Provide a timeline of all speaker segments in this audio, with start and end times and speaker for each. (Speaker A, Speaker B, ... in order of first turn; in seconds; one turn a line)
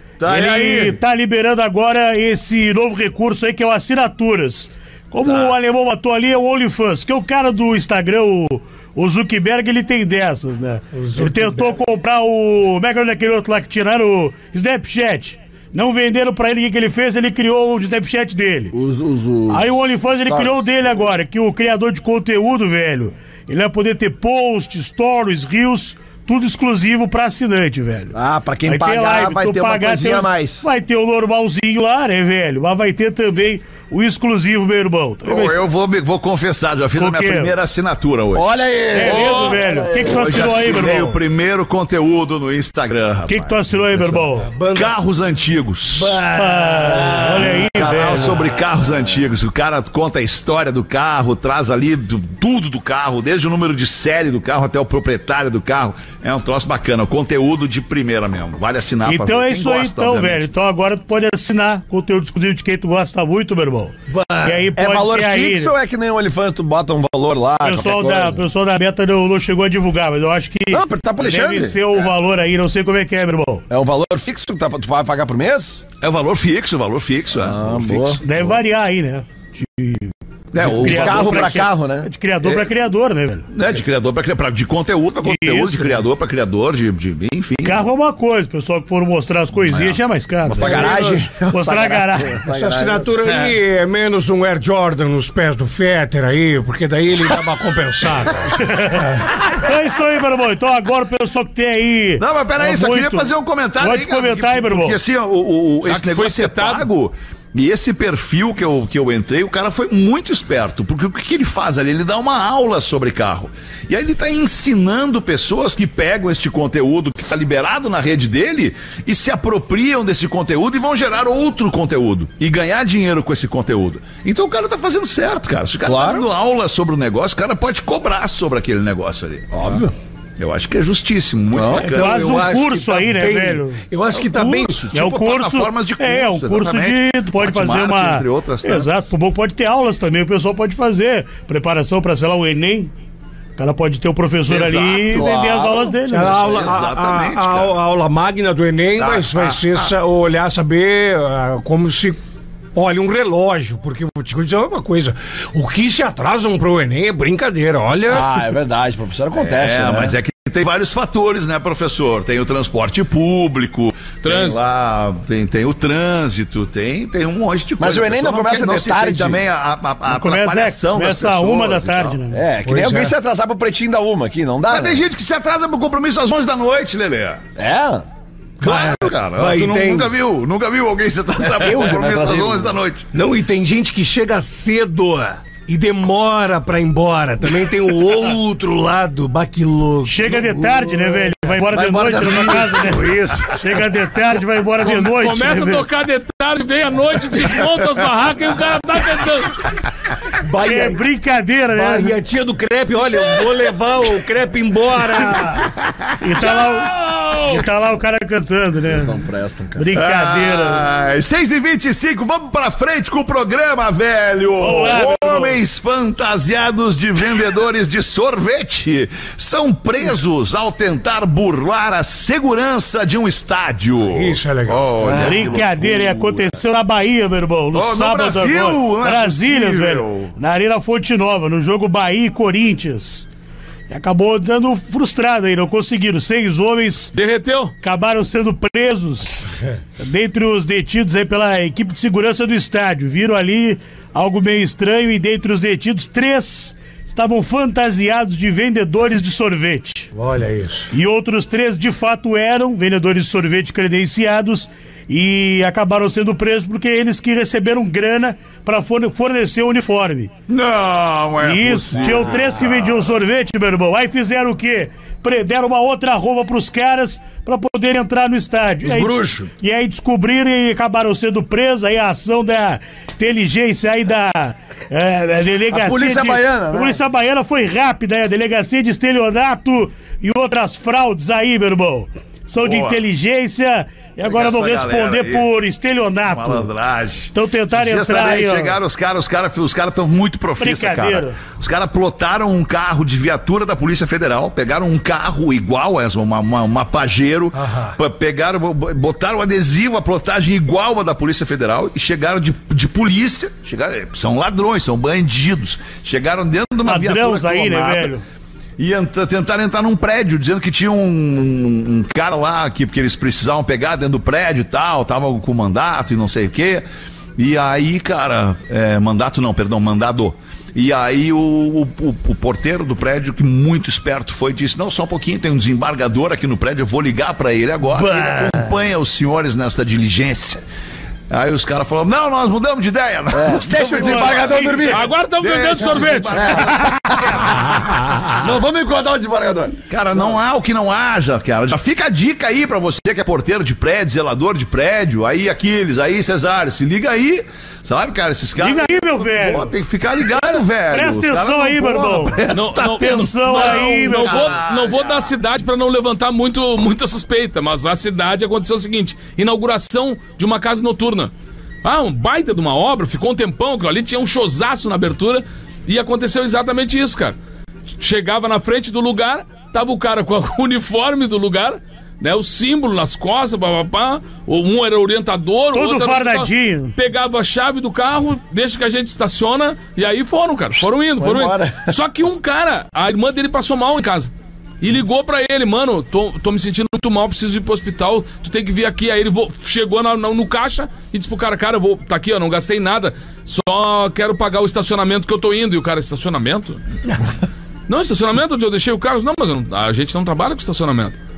Speaker A: 0.2-1.0
Speaker B: 0.3-18.7
Speaker A: 5.2-5.5
Speaker C: 10.9-11.7
Speaker D: 18.7-20.6
Speaker B: 19.5-35.6
Speaker D: 28.1-30.6
Speaker A: 35.2-38.5
Speaker B: 37.0-37.5
Speaker D: 38.3-40.5
Speaker B: 38.9-41.2
Speaker E: 39.0-39.6
Speaker A: 40.0-46.2
Speaker B: 43.3-44.5
Speaker C: 44.4-44.9
Speaker C: 45.9-48.1
Speaker B: 46.3-48.4
Speaker A: 47.5-60.5
Speaker B: 59.0-65.7
Speaker C: 64.1-64.6
Speaker D: 64.7-68.4
Speaker B: 67.6-73.6
Speaker D: 70.7-72.1
Speaker D: 73.7-75.8
Speaker A: 76.0-78.2
Speaker D: 77.3-78.5
Speaker B: 78.2-80.1
Speaker A: 80.5-81.6
Speaker D: 80.6-82.6
Speaker B: 80.6-83.5
Speaker A: 83.5-87.8
Speaker B: 85.2-86.0
Speaker B: 87.6-92.4
Speaker A: 89.7-90.0
Speaker D: 90.5-93.1
Speaker C: 92.5-98.5
Speaker E: 93.2-93.5
Speaker B: 98.6-105.0
Speaker A: 102.2-129.6
Speaker E: 105.8-106.9
Speaker D: 125.8-126.2
Speaker D: 129.5-129.9
Speaker A: 130.4-132.3
Speaker D: 131.5-131.9
Speaker C: 131.7-134.9
Speaker B: 131.9-133.8
Speaker A: 134.1-139.0
Speaker B: 134.9-142.9
Speaker B: 143.6-146.4
Speaker A: 144.5-145.3
Speaker D: 145.1-146.5
Speaker C: 146.1-152.2
Speaker A: 146.3-147.8
Speaker A: 148.9-149.9
Speaker C: 152.8-158.3
Speaker D: 158.1-160.2
Speaker A: 159.4-172.2
Speaker E: 164.2-164.6
Speaker D: 167.8-169.4
Speaker B: 170.0-172.4
Speaker D: 172.3-175.0
Speaker C: 172.6-173.1
Speaker A: 174.7-177.4
Speaker D: 177.6-178.1
Speaker A: 178.6-183.1
Speaker C: 178.6-180.1
Speaker D: 181.5-182.8
Speaker C: 183.1-191.3
Speaker B: 190.0-195.8
Speaker D: 191.7-193.0
Speaker C: 191.9-193.6
Speaker E: 194.8-199.6
Speaker C: 200.4-201.0
Speaker B: 200.6-202.1
Speaker C: 201.7-205.7
Speaker B: 206.2-206.9
Speaker E: 206.4-207.7
Speaker B: 207.4-209.1
Speaker D: 208.8-209.9
Speaker B: 209.8-210.8
Speaker A: 209.9-226.5
Speaker B: 214.6-215.6
Speaker C: 224.1-224.9
Speaker D: 225.0-225.5
Speaker B: 225.1-233.3
Speaker A: 227.7-230.3
Speaker B: 233.9-237.1
Speaker E: 237.1-237.7
Speaker B: 237.8-239.5
Speaker B: 240.0-250.1
Speaker C: 250.1-250.9
Speaker B: 250.9-260.3
Speaker A: 260.5-262.6
Speaker B: 261.4-286.7
Speaker D: 261.9-262.6
Speaker D: 268.8-269.5
Speaker D: 275.7-277.0
Speaker A: 282.6-283.0
Speaker A: 284.2-285.5
Speaker A: 286.3-308.1
Speaker B: 287.3-288.8
Speaker B: 290.6-291.4
Speaker C: 297.5-298.0
Speaker B: 306.9-308.2
Speaker A: 308.8-316.9
Speaker A: 317.4-330.6
Speaker A: 331.3-334.9
Speaker D: 333.3-335.1
Speaker B: 333.9-334.9
Speaker E: 334.7-336.5
Speaker A: 335.4-337.6
Speaker D: 336.3-337.6
Speaker D: 338.3-339.8
Speaker A: 339.9-355.3
Speaker B: 348.6-349.7
Speaker B: 350.3-354.6
Speaker E: 352.5-361.3
Speaker E: 361.8-367.4
Speaker E: 367.9-396.8
Speaker B: 375.7-376.9
Speaker D: 381.2-382.0
Speaker E: 397.9-401.2